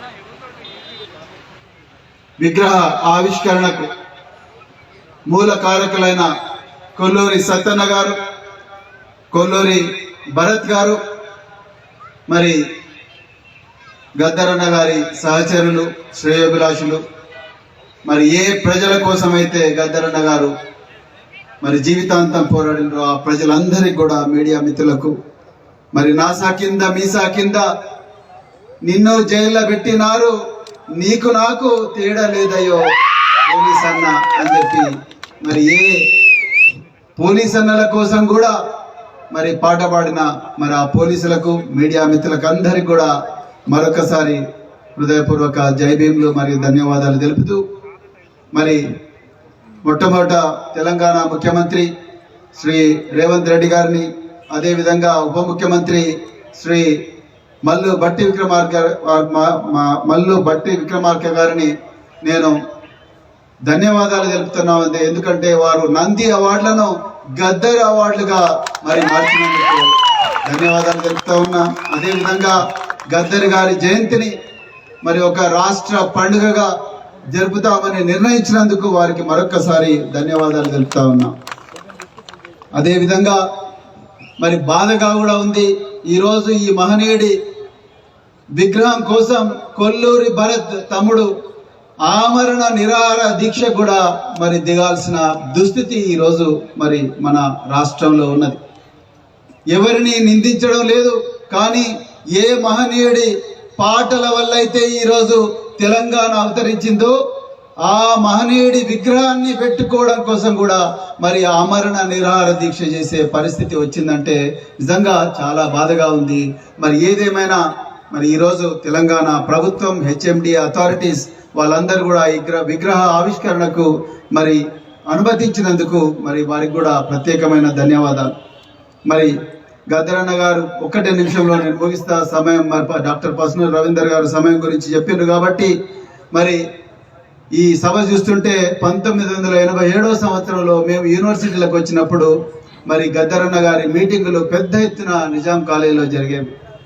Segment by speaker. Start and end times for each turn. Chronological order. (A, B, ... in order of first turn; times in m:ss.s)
0:02.4-0:03.9 A
0:05.3-0:06.3 A
0:07.0-0:08.2 A
0:09.3-0:09.8 A
0:10.4-0:11.0 A
0:12.3-0:12.6 A
0:14.2-0:17.0 A
0:18.1-0:20.5 A
0:21.6-0:25.1 A
0:25.9-0:27.6 A
0:28.8-0:30.4 A
0:31.0-0:32.9 A
0:33.5-0:34.9 A
0:35.4-0:36.0 A
0:37.2-0:38.5 A
0:39.3-0:43.1 A
0:43.7-0:44.4 A
0:45.0-0:47.6 A
0:48.5-0:48.8 A
0:49.8-0:51.9 A
0:52.6-0:56.9 A
0:57.6-1:01.7 A
1:02.2-1:02.5 A
1:03.7-1:09.9 A
1:10.4-1:12.6 A
1:13.1-1:14.3 A
1:15.0-1:16.7 A
1:17.3-1:21.3 A
1:22.8-1:23.4 A
1:24.4-1:27.3 A
1:28.6-1:31.3 A
1:32.1-1:38.6 A
1:39.7-1:47.1 A
1:47.8-1:57.6 A
1:58.1-2:08.3 A
2:09.9-2:15.7 A
2:16.3-2:16.6 A
2:17.6-2:22.3 A
2:22.9-2:26.5 A